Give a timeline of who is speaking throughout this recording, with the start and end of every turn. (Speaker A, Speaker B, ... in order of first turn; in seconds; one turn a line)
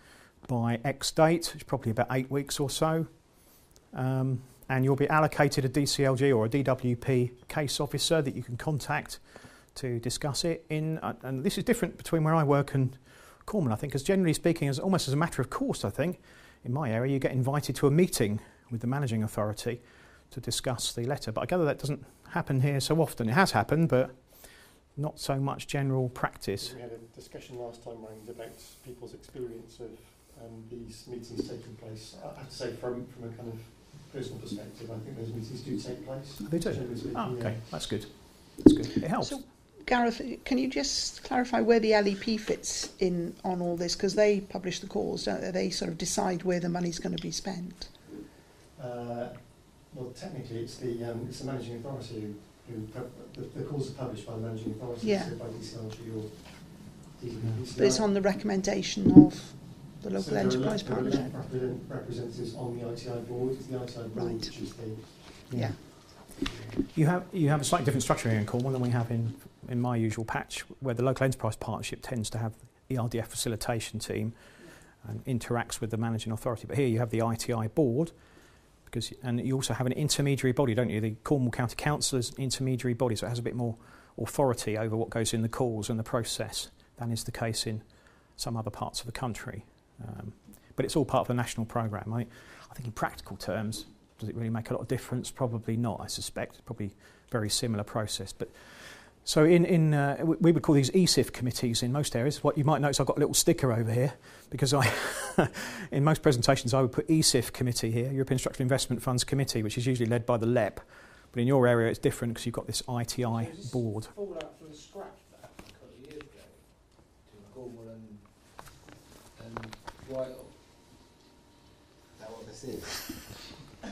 Speaker A: 0.4-26.7
Speaker B: 26.6-37.9
Speaker A: 36.4-39.4
Speaker C: 39.2-48.1
Speaker B: 48.7-58.1
Speaker C: 55.0-55.3
Speaker C: 57.8-61.3
Speaker B: 60.1-65.5
Speaker C: 64.1-64.5
Speaker C: 65.0-65.8
Speaker A: 65.5-74.3
Speaker A: 75.0-78.1
Speaker A: 78.8-87.8
Speaker A: 88.3-114.1
Speaker D: 113.3-120.9
Speaker D: 122.1-123.5